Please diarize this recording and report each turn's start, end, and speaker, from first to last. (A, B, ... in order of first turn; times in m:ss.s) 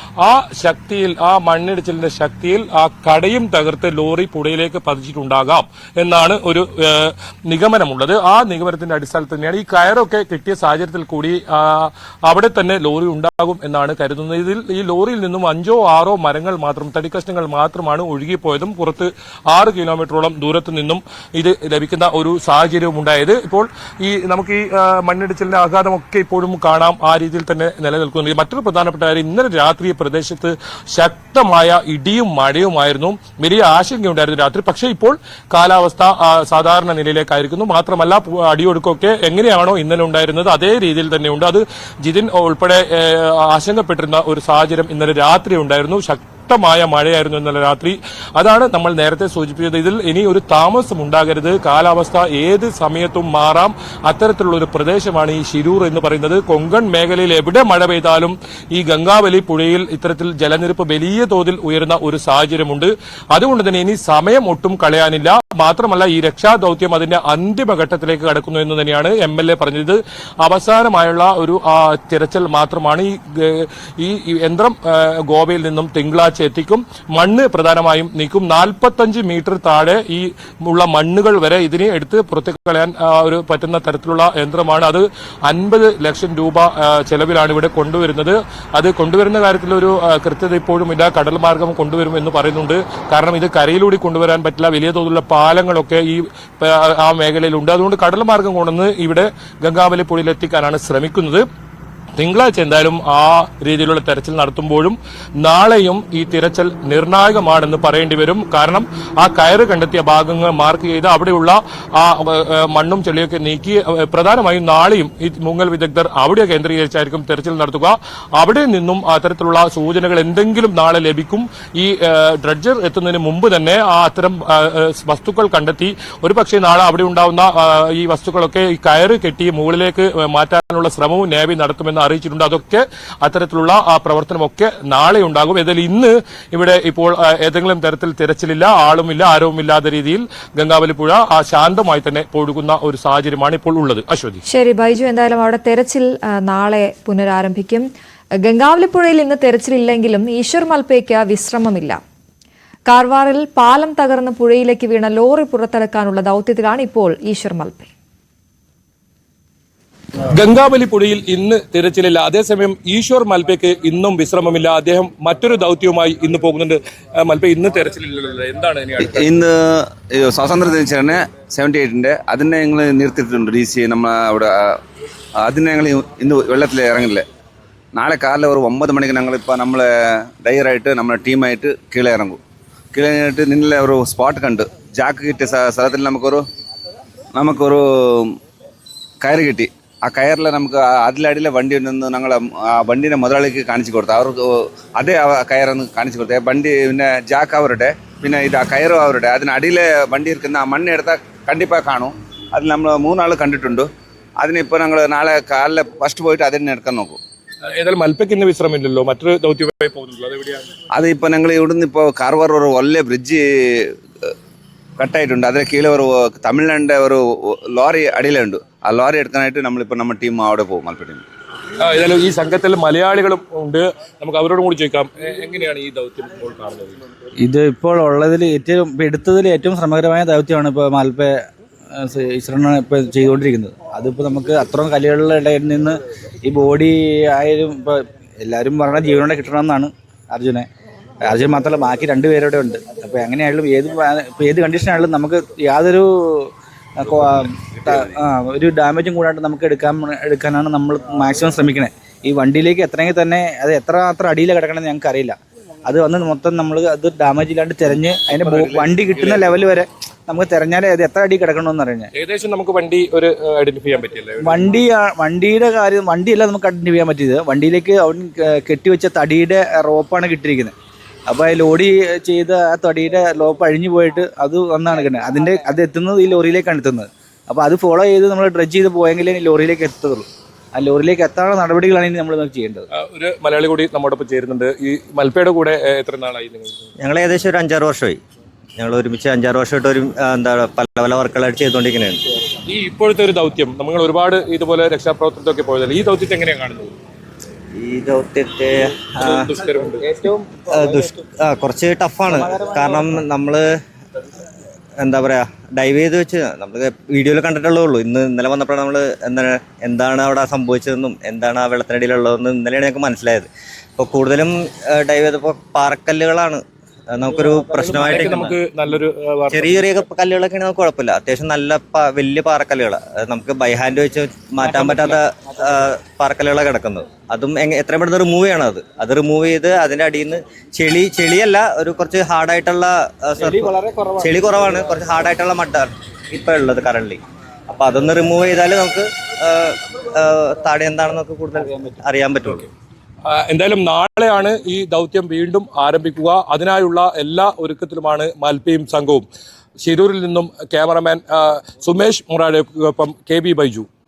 0:00.2-1:41.4 A
1:42.2-2:24.4 A
2:24.5-2:27.9 B
2:28.4-2:32.0 B
2:32.9-2:37.9 B
2:40.3-2:49.3 A
2:49.0-2:54.7 C
2:55.4-2:57.2 C
2:57.9-2:59.9 C
3:00.4-3:02.4 C
3:02.9-3:06.4 C
3:07.3-3:08.4 C
3:09.2-3:23.9 C
3:24.4-3:27.2 C
3:27.7-3:30.6 A
3:30.9-3:34.3 C
3:35.0-3:41.2 C
3:41.8-3:47.0 A
3:47.4-3:51.3 D
3:51.9-4:00.7 D
4:01.2-4:22.1 D
4:18.3-4:19.5 A
4:22.1-4:24.7 A
4:24.4-4:30.7 D
4:31.3-4:42.8 D
4:42.9-4:46.9 A
4:47.0-4:48.2 E
4:48.8-4:52.2 E
4:52.7-4:56.9 A
4:57.8-4:59.5 E
4:59.2-5:00.0 A
5:00.2-5:01.1 D
5:00.7-5:03.7 E
5:02.3-5:03.2 D
5:05.0-5:18.5 E
5:17.4-5:18.4 D
5:17.7-5:20.0 A
5:19.5-5:42.7 E
5:24.7-5:25.2 D
5:33.4-5:35.1 D
5:43.3-5:49.2 A
5:49.8-5:53.8 A